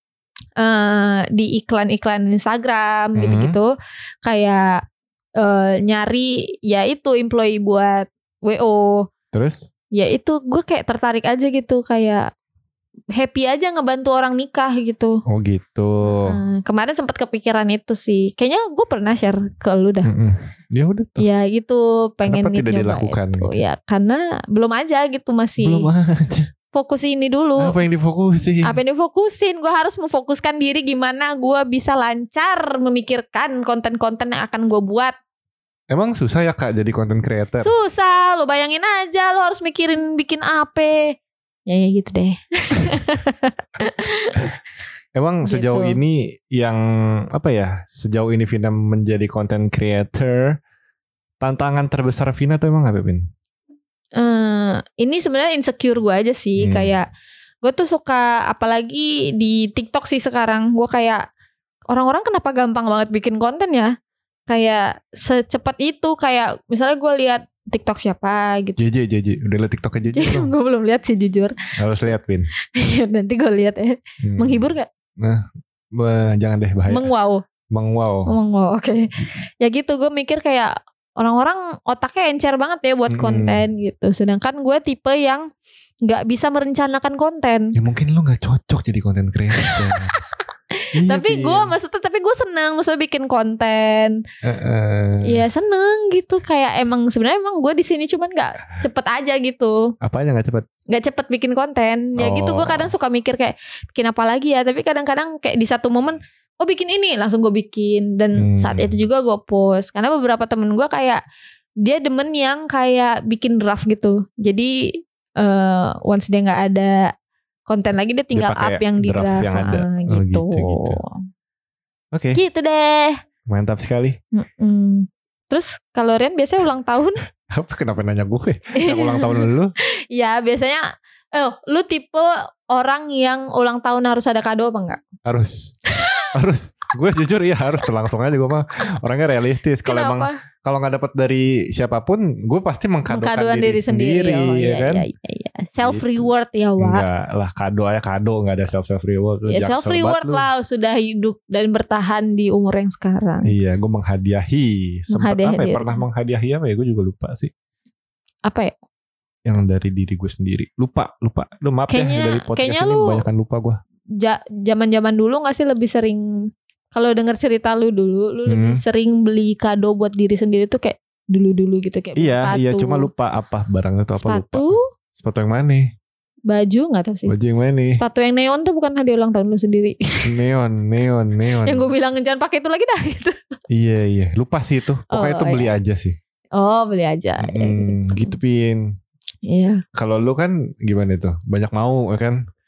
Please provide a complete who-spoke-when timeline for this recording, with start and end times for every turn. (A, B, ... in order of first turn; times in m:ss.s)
0:00.6-0:03.7 A
0:03.2-0:03.6 B
0:04.2-0:04.8 A
0:05.4-0:09.1 A
0:09.3-0:09.7 B
0:09.9-0:12.3 A
0:13.1-0:15.2 A
0:15.3-0:16.4 B
0:16.0-0:20.1 A
0:20.0-0:21.3 B
0:21.2-0:25.9 A
0:22.2-0:23.6 B
0:25.6-0:26.5 B
0:26.7-0:27.8 A
0:27.6-0:28.8 B
0:28.6-0:35.1 A
0:35.9-0:37.7 B
0:37.6-0:41.1 A
0:41.7-0:44.5 A
0:45.1-0:50.6 B
0:45.4-0:46.0 A
0:51.4-0:53.2 B
0:54.2-0:57.1 A
0:56.6-0:56.9 B
0:57.6-1:01.2 A
1:01.9-1:03.9 A
1:04.5-1:08.8 A
1:08.8-1:10.5 B
1:10.1-1:11.5 A
1:11.8-1:12.5 B
1:12.7-1:14.9 A
1:14.2-1:14.7 B
1:16.0-1:17.1 B
1:16.9-1:17.4 A
1:17.7-1:18.3 B
1:18.3-1:19.1 A
1:19.6-1:25.4 A
1:23.1-1:23.6 B
1:26.0-1:27.7 A
1:27.8-1:30.1 B
1:30.7-1:34.2 A
1:30.9-1:31.7 B
1:34.4-1:35.4 B
1:35.2-1:39.9 A
1:40.0-1:40.6 B
1:40.9-1:51.2 A
1:42.2-1:42.9 B
1:48.4-1:48.9 B
1:51.8-1:54.7 A
1:55.4-1:57.1 A
1:57.7-2:01.2 A
1:58.3-2:01.0 B
2:02.1-2:02.4 B
2:02.3-2:03.2 A
2:03.5-2:04.2 B
2:04.3-2:07.2 A
2:07.5-2:09.7 B
2:08.8-2:09.5 A
2:10.1-2:15.0 A
2:15.2-2:15.7 B
2:15.9-2:16.2 A
2:16.3-2:25.0 B
2:19.8-2:20.4 A
2:23.1-2:27.0 A
2:25.8-2:30.5 B
2:29.4-2:33.5 A
2:33.4-2:37.5 B
2:35.1-2:36.0 A
2:38.4-2:38.7 A
2:39.4-2:43.8 B
2:41.9-2:43.2 A
2:44.2-2:46.3 A
2:46.9-2:53.1 A
2:48.5-2:48.8 B
2:52.2-2:54.7 B
2:54.2-2:54.8 A
2:55.2-2:55.8 B
2:56.5-2:57.4 A
2:57.3-2:58.0 B
2:57.9-3:00.3 A
3:00.2-3:01.9 B
3:01.6-3:03.3 A
3:03.7-3:06.2 B
3:05.1-3:05.7 A
3:06.6-3:08.4 A
3:07.4-3:08.9 B
3:09.5-3:09.8 A
3:09.9-3:12.4 B